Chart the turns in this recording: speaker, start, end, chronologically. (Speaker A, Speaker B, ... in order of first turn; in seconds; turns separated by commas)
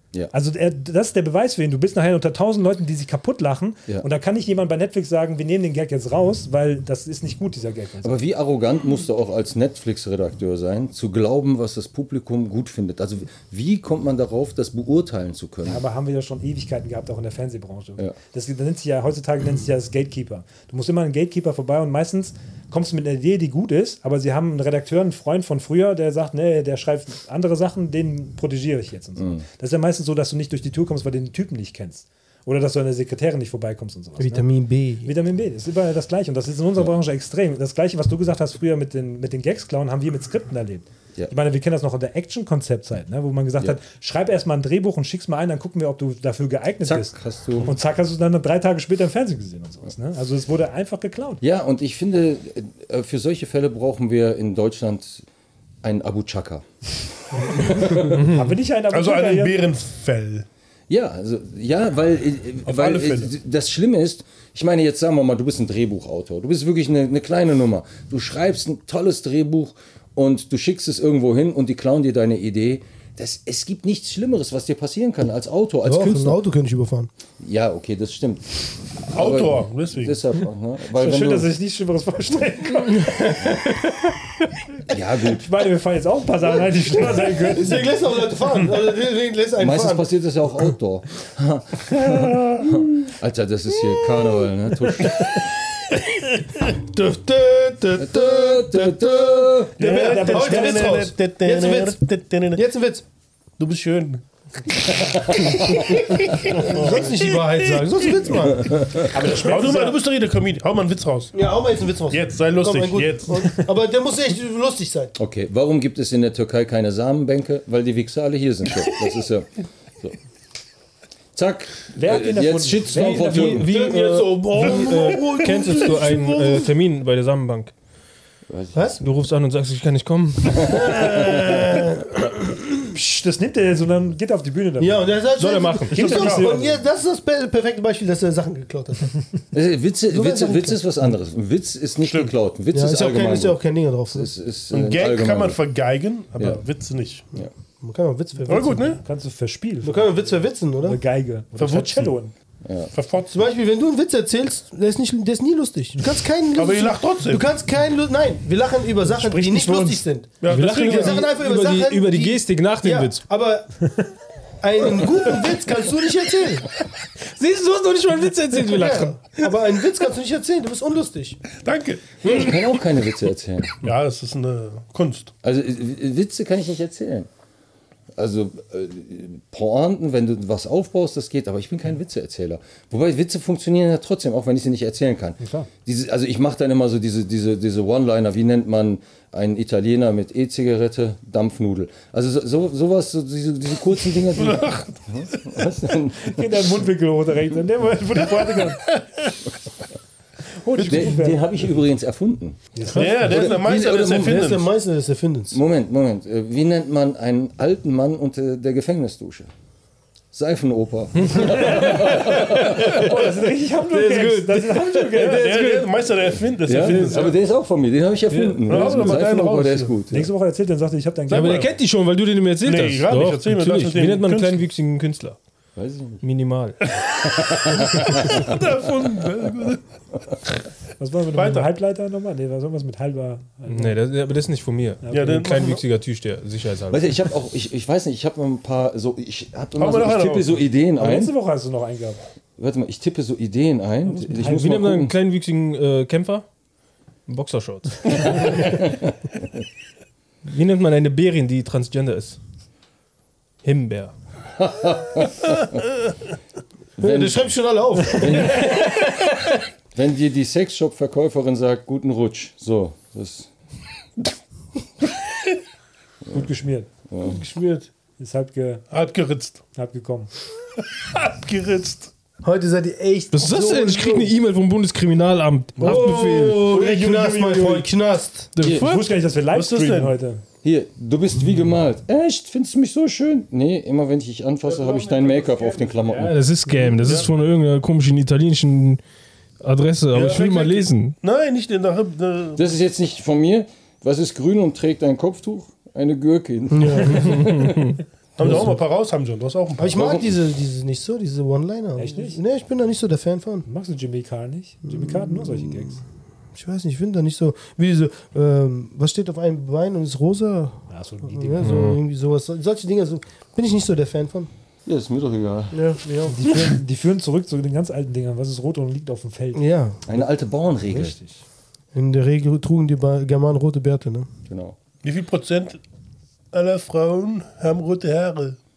Speaker A: 0.3-8.2, Speaker B: 8.0-15.8, Speaker A: 15.6-34.5, Speaker B: 29.2-29.4, Speaker C: 34.2-35.1, Speaker A: 35.0-51.4, Speaker B: 46.8-47.7, Speaker B: 51.4-55.2, Speaker B: 55.8-56.6, Speaker B: 57.3-58.2, Speaker A: 58.2-59.6, Speaker D: 58.3-60.5, Speaker B: 60.9-76.4, Speaker D: 62.6-63.3, Speaker C: 75.8-77.1, Speaker B: 77.4-81.5, Speaker D: 79.1-80.2, Speaker A: 80.9-84.1, Speaker B: 84.9-85.5, Speaker A: 85.3-87.9, Speaker C: 87.3-90.0, Speaker B: 89.6-95.5, Speaker C: 96.7-102.0, Speaker B: 98.0-99.7, Speaker D: 99.8-102.6, Speaker A: 99.8-101.0, Speaker C: 102.5-103.0, Speaker D: 103.6-104.9, Speaker B: 105.0-106.0, Speaker C: 106.1-109.8, Speaker D: 106.3-107.8, Speaker B: 108.6-109.0, Speaker A: 109.1-110.0, Speaker D: 109.3-111.3, Speaker C: 111.3-115.1, Speaker D: 112.1-113.5, Speaker B: 115.2-120.2, Speaker B: 121.3-123.7, Speaker A: 121.9-123.6, Speaker E: 123.0-127.7, Speaker C: 123.6-126.7, Speaker D: 124.5-126.0, Speaker B: 128.5-128.9, Speaker C: 128.7-129.0, Speaker E: 129.0-131.1, Speaker C: 130.5-132.6, Speaker B: 130.6-131.8, Speaker A: 132.9-135.2, Speaker C: 134.8-139.2, Speaker E: 135.4-136.4, Speaker D: 135.9-136.7, Speaker B: 139.5-145.6, Speaker C: 140.1-140.8, Speaker D: 142.0-142.3, Speaker C: 142.7-144.3, Speaker D: 144.7-147.2, Speaker C: 147.8-149.0, Speaker D: 148.5-149.0, Speaker A: 148.5-152.3, Speaker C: 149.8-151.0, Speaker D: 151.6-152.1, Speaker B: 152.6-152.9, Speaker D: 152.9-153.3, Speaker C: 153.3-163.8, Speaker D: 156.5-157.4, Speaker A: 159.1-160.0, Speaker D: 160.4-161.2, Speaker E: 160.5-163.2, Speaker C: 164.6-166.7, Speaker E: 167.3-169.4, Speaker C: 168.6-171.5, Speaker D: 171.5-172.6, Speaker B: 172.2-173.8, Speaker D: 173.8-175.3, Speaker B: 175.4-177.3, Speaker B: 178.2-196.7, Speaker A: 185.4-185.7, Speaker D: 194.4-195.5, Speaker A: 196.2-198.9, Speaker A: 200.6-201.4, Speaker B: 200.8-204.5, Speaker A: 202.7-203.2, Speaker E: 202.9-203.2, Speaker D: 202.9-204.7, Speaker C: 204.0-205.6, Speaker B: 205.5-209.5, Speaker B: 210.3-213.0, Speaker A: 211.3-215.7, Speaker E: 211.4-213.0, Speaker E: 213.9-216.1, Speaker D: 215.2-217.3, Speaker B: 216.6-220.3, Speaker E: 216.7-217.2, Speaker E: 218.3-218.8, Speaker D: 218.6-219.9, Speaker A: 220.1-221.7, Speaker D: 221.3-221.7, Speaker E: 221.3-225.4, Speaker D: 222.6-224.6, Speaker B: 225.8-226.2, Speaker E: 226.2-226.8, Speaker B: 227.2-228.4, Speaker D: 228.1-229.8, Speaker A: 231.0-234.0, Speaker D: 231.3-231.7, Speaker E: 233.7-237.1, Speaker A: 235.0-235.5, Speaker D: 235.1-235.8, Speaker B: 236.9-241.3, Speaker D: 239.8-240.6, Speaker A: 241.0-242.2, Speaker B: 242.6-245.1, Speaker A: 244.1-244.6, Speaker E: 244.4-246.4, Speaker E: 247.3-248.7, Speaker B: 248.3-249.0, Speaker E: 250.4-252.4, Speaker E: 253.6-254.1, Speaker B: 254.6-255.8, Speaker B: 257.0-257.5, Speaker C: 257.0-258.8, Speaker B: 258.1-259.0, Speaker B: 259.9-263.5, Speaker A: 266.3-266.9, Speaker B: 267.1-267.4, Speaker D: 267.2-267.9, Speaker A: 268.2-268.9, Speaker D: 268.9-269.6, Speaker A: 269.7-270.3, Speaker D: 270.9-272.1, Speaker C: 272.4-274.3, Speaker E: 273.3-276.8, Speaker D: 275.8-276.4, Speaker C: 275.8-278.5, Speaker A: 276.7-277.9, Speaker E: 278.5-279.1, Speaker A: 278.7-280.4, Speaker D: 279.5-280.1, Speaker B: 280.6-286.4, Speaker D: 284.8-285.8, Speaker E: 286.1-289.0, Speaker D: 287.0-287.3, Speaker E: 289.6-291.2, Speaker D: 290.1-292.6, Speaker B: 292.6-297.9, Speaker C: 296.7-297.6, Speaker E: 297.4-297.9, Speaker D: 298.4-300.2, Speaker C: 299.8-303.6, Speaker B: 299.9-300.3, Speaker A: 302.0-302.4, Speaker A: 303.6-306.0, Speaker C: 304.9-305.7, Speaker C: 306.5-314.5, Speaker A: 310.9-311.7, Speaker E: 311.6-312.0, Speaker B: 314.9-315.8, Speaker C: 315.7-316.6, Speaker A: 316.3-319.6, Speaker C: 319.5-320.0, Speaker B: 320.1-321.2, Speaker A: 320.9-321.4, Speaker C: 321.9-324.3, Speaker B: 324.5-324.8, Speaker D: 325.0-325.8, Speaker D: 326.5-328.6